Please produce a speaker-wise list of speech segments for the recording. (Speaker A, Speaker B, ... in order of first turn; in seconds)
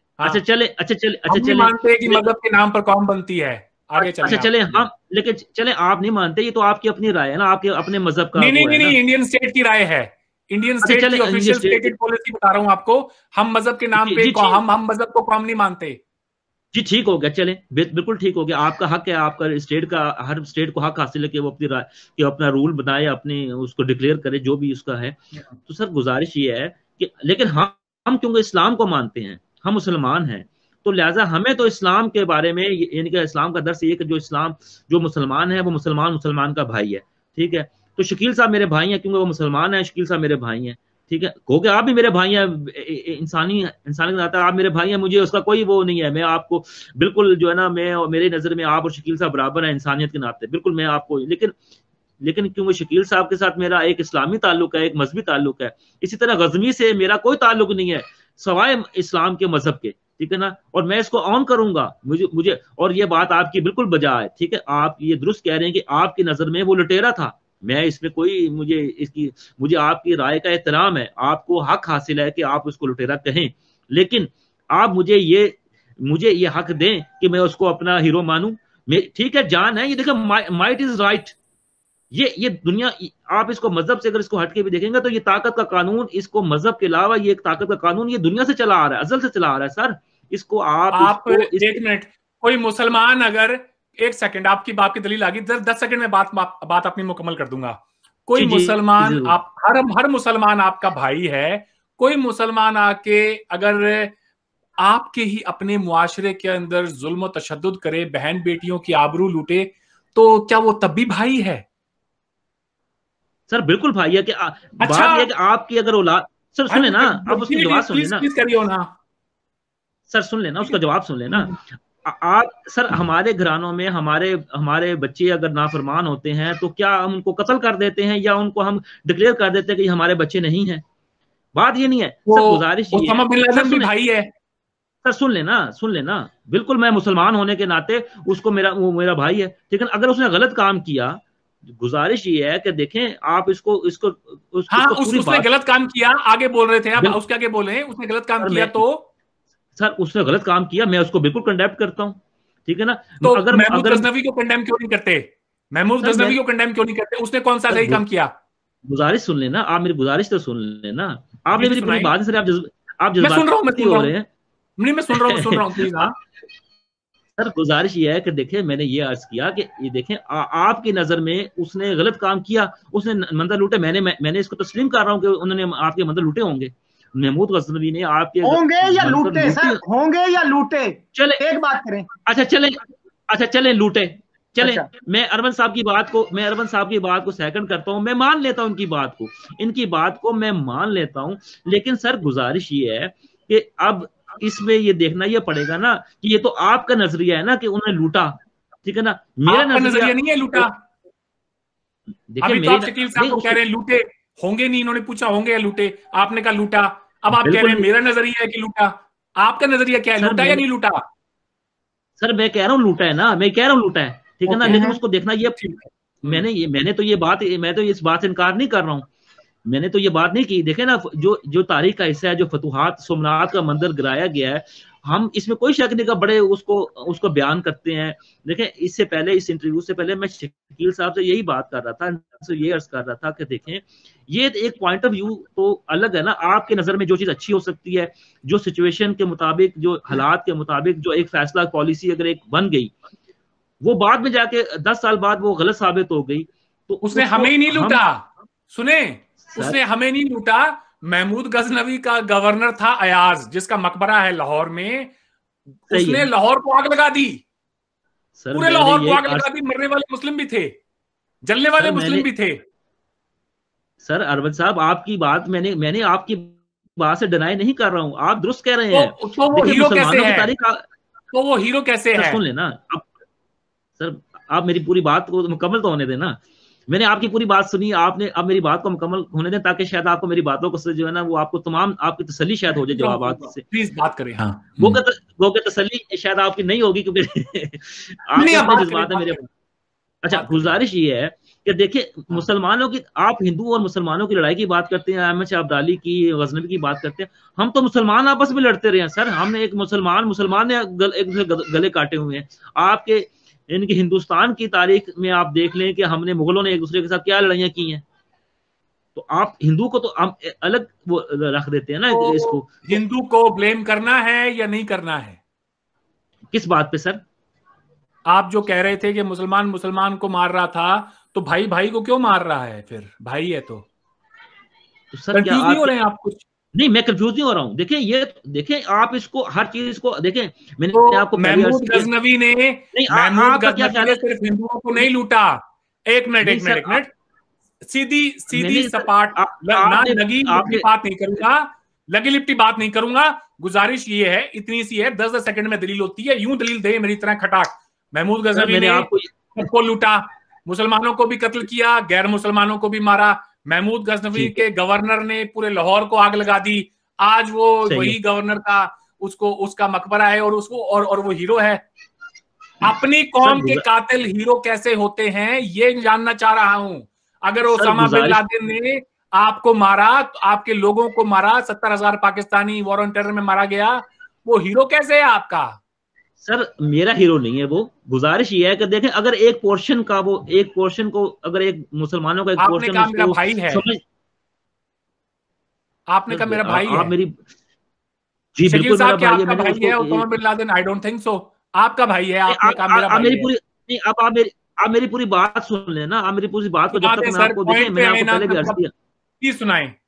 Speaker A: 0.2-2.2, 4.0-9.0, 10.8-11.9, 14.0-14.6, 16.7-51.5, 52.2-81.4, 82.1-91.8, 98.4-99.3, 113.5-118.2, 120.1-130.8, 131.6-133.9, 135.0-145.5, 148.4-148.8, 149.8-154.1, 156.0-156.4, 157.7-158.0, 158.9-164.3, 165.1-165.9, 167.4-179.8, 181.2-181.4, 182.3-200.7, 202.3-203.6, 207.4-207.9, 210.2-210.6, 212.2-215.6, 216.2-219.1, 219.7-242.9, 243.8-248.0, 255.9-256.3, 258.4-259.5, 261.8-262.3, 264.0-270.8, 272.1-273.1, 274.0-283.6, 284.8-289.5, 290.2-308.0, 309.1-313.0, 316.5-317.2, 325.1-325.9, 326.8-332.1, 332.9-334.2, 336.4-337.0, 338.5-340.9, 348.5-349.3, 354.3-354.6, 357.9-358.2, 363.4-363.9, 367.7-368.4, 376.4-384.0, 386.3-387.4, 388.6-390.3, 392.5-398.9
Speaker B: 1.3-4.9, 8.4-16.0, 90.9-104.1, 104.8-111.7, 114.8-115.3, 116.7-118.9, 132.3-134.3, 144.7-149.1, 153.2-158.3, 161.6-162.1, 163.2-164.1, 164.8-166.2, 199.5-200.8, 202.4-211.0, 215.6-216.4, 247.0-255.1, 255.9-257.4, 258.5-260.8, 261.4-262.6, 268.9-270.5, 271.3-272.4, 282.9-285.0, 288.4-289.4, 290.3-290.8, 312.1-315.4, 318.3-323.9, 325.3-326.4, 330.9-337.1, 337.9-361.8, 362.8-375.8, 382.6-383.9, 386.1-387.1, 388.7-393.5, 396.9-398.8, 399.4-399.9
Speaker C: 178.4-182.1, 184.6-184.9, 214.5-215.0